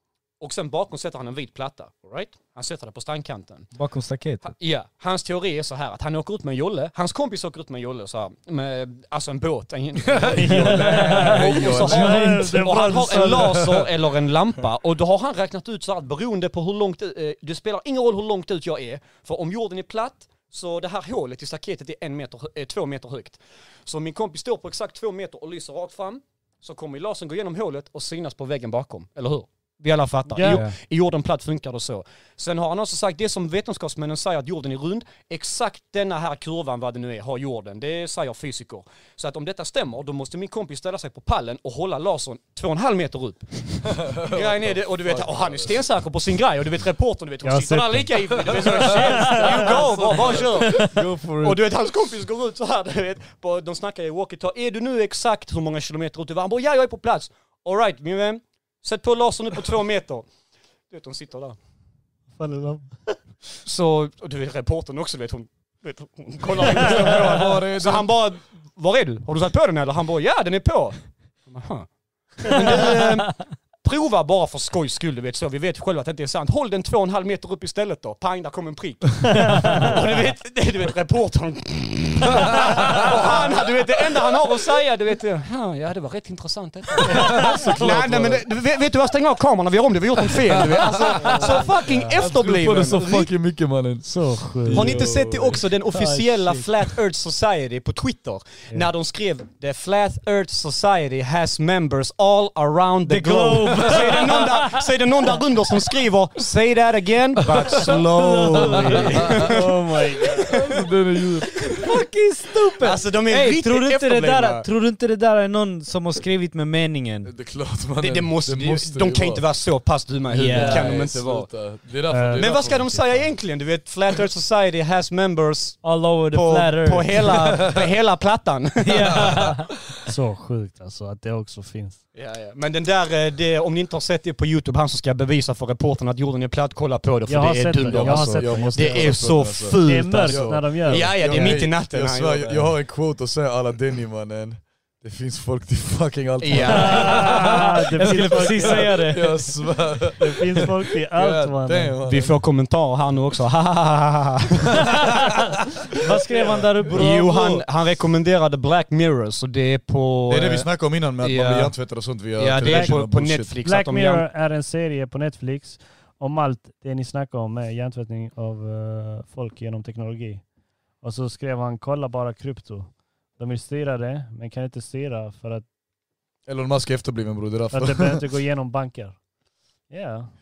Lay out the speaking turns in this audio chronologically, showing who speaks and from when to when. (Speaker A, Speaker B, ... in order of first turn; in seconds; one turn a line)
Speaker A: 0.4-3.7
Speaker B: 3.7-4.5
Speaker A: 4.4-60.3
Speaker C: 10.0-13.9
Speaker D: 10.3-13.6
Speaker B: 11.9-12.3
Speaker D: 30.3-30.6
Speaker B: 30.4-30.7
Speaker C: 44.0-45.8
Speaker D: 47.4-50.8
Speaker C: 48.4-51.6
Speaker A: 60.9-61.6
Speaker D: 62.4-63.2
Speaker A: 63.6-93.3
Speaker C: 66.6-68.1
Speaker C: 82.3-83.3
Speaker C: 87.0-88.5
Speaker D: 87.2-87.6
Speaker C: 90.2-95.7
Speaker D: 94.0-95.0
Speaker A: 94.7-109.6
Speaker B: 96.0-96.6
Speaker B: 103.0-105.3
Speaker C: 107.5-109.7
Speaker B: 107.9-109.2
Speaker D: 108.0-110.6
Speaker A: 110.3-110.8
Speaker C: 110.5-112.0
Speaker B: 111.7-117.3
Speaker A: 112.8-114.6
Speaker C: 117.2-119.4
Speaker A: 118.0-121.5
Speaker B: 120.3-121.0
Speaker C: 120.4-123.3
Speaker D: 122.1-122.5
Speaker A: 122.3-129.3
Speaker B: 125.8-127.6
Speaker B: 128.8-129.7
Speaker C: 129.1-129.5
Speaker D: 130.0-132.0
Speaker A: 132.1-142.7
Speaker D: 137.3-139.3
Speaker C: 137.8-152.4
Speaker D: 139.8-141.5
Speaker A: 146.4-147.3
Speaker B: 146.6-149.5
Speaker D: 146.7-149.0
Speaker D: 150.2-151.9
Speaker A: 152.0-155.1
Speaker B: 156.0-157.6
Speaker A: 156.1-161.7
Speaker C: 160.3-163.5
Speaker A: 162.3-164.2
Speaker D: 162.6-163.0
Speaker D: 163.6-170.4
Speaker D: 171.0-175.7
Speaker C: 176.4-178.2
Speaker D: 177.7-179.2
Speaker D: 179.9-180.3